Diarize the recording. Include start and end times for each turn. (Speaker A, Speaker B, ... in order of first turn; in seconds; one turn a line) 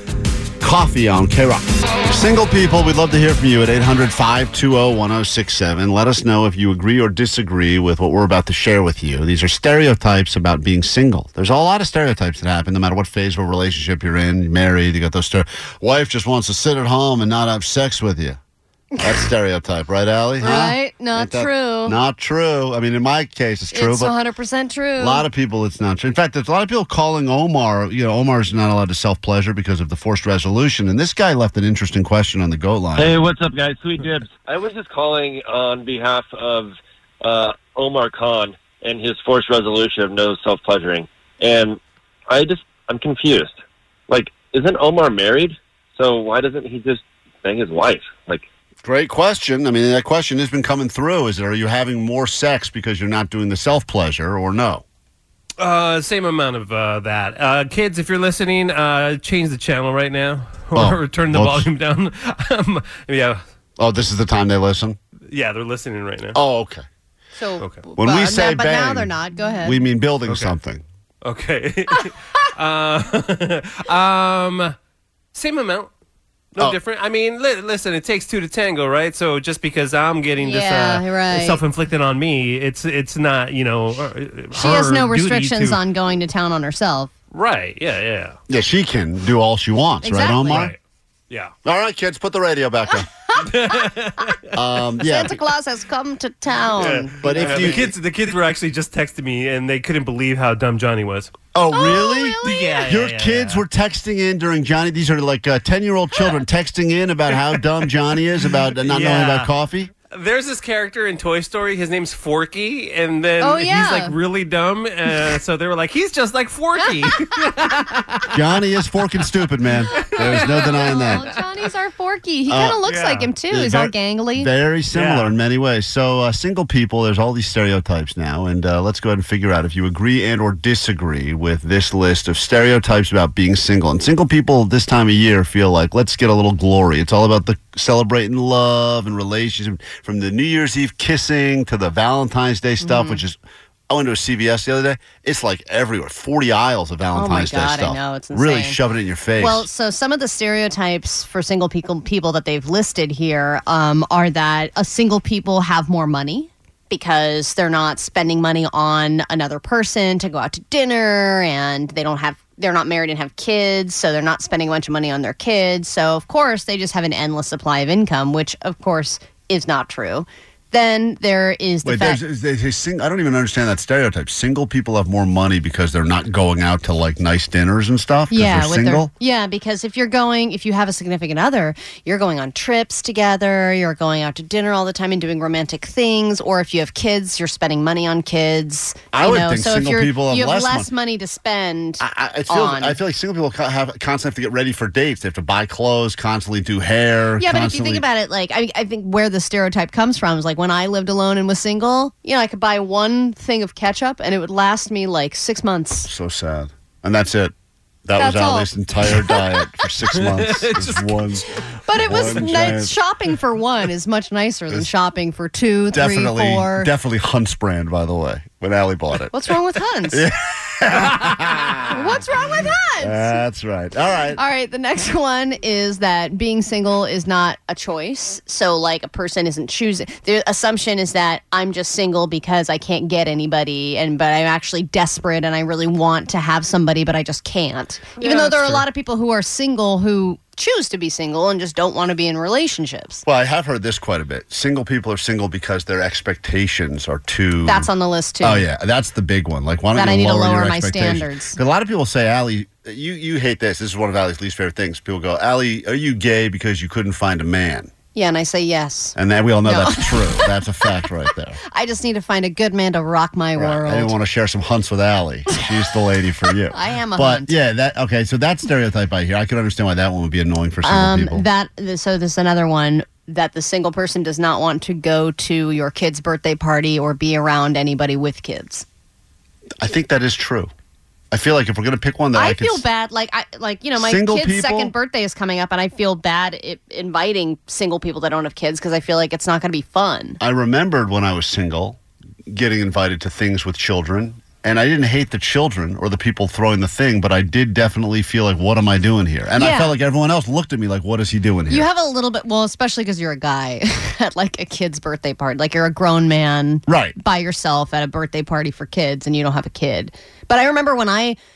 Speaker A: 0.6-18.4
Speaker A: 19.0-24.1
Speaker B: 20.4-22.0
Speaker B: 23.7-25.3
Speaker A: 25.0-33.2
Speaker C: 33.0-34.9
Speaker D: 34.5-41.8
Speaker C: 37.2-37.9
Speaker C: 41.4-41.7
Speaker D: 42.3-43.5
Speaker C: 42.4-43.1
Speaker D: 44.1-48.4
Speaker C: 44.1-44.7
Speaker C: 46.0-48.4
Speaker A: 48.8-54.8
Speaker E: 55.6-63.4
Speaker A: 60.7-61.7
Speaker A: 63.8-65.0
Speaker E: 65.3-66.4
Speaker A: 66.3-66.8
Speaker B: 67.4-69.8
Speaker A: 68.0-70.8
Speaker E: 70.3-70.5
Speaker E: 71.2-74.8
Speaker E: 75.3-75.9
Speaker E: 76.6-85.8
Speaker B: 80.4-81.6
Speaker B: 84.5-87.1
Speaker E: 87.3-88.4
Speaker A: 88.5-90.7
Speaker B: 90.0-90.7
Speaker E: 90.5-90.8
Speaker A: 91.7-93.1
Speaker E: 93.4-94.4
Speaker A: 94.5-95.4
Speaker B: 95.0-97.9
Speaker E: 96.8-101.3
Speaker A: 97.2-97.9
Speaker A: 101.5-109.9
Speaker B: 101.7-102.9
Speaker E: 102.4-103.6
Speaker E: 108.8-109.5
Speaker E: 110.1-118.3
Speaker B: 113.4-114.1
Speaker A: 118.3-121.3
Speaker E: 120.0-120.8
Speaker B: 120.3-124.5
Speaker A: 122.5-122.8
Speaker E: 122.8-123.3
Speaker A: 123.5-143.4
Speaker E: 124.9-125.3
Speaker B: 142.8-143.2
Speaker A: 143.9-149.7
Speaker B: 147.1-148.8
Speaker B: 149.4-172.2
Speaker A: 171.8-179.1
Speaker B: 178.3-193.0
Speaker A: 189.1-190.9
Speaker A: 192.0-198.0
Speaker B: 197.4-206.1
Speaker A: 206.1-207.5
Speaker A: 208.1-212.9
Speaker B: 208.2-209.4
Speaker E: 210.3-211.3
Speaker B: 211.9-216.9
Speaker A: 215.9-219.3
Speaker B: 219.3-220.2
Speaker A: 220.1-222.0
Speaker B: 221.9-223.4
Speaker A: 223.0-224.4
Speaker B: 224.3-243.2
Speaker A: 243.3-247.9
Speaker B: 247.7-248.7
Speaker A: 248.4-257.9
Speaker B: 249.9-251.6
Speaker B: 258.1-260.9
Speaker A: 259.2-261.6
Speaker B: 261.7-264.1
Speaker A: 263.6-271.4
Speaker B: 266.7-267.6
Speaker B: 270.8-278.9
Speaker A: 279.8-280.7
Speaker A: 281.3-282.8
Speaker B: 282.4-290.4
Speaker A: 284.0-284.9
Speaker A: 290.4-301.9
Speaker B: 299.6-299.9
Speaker B: 301.7-311.4
Speaker A: 306.9-307.2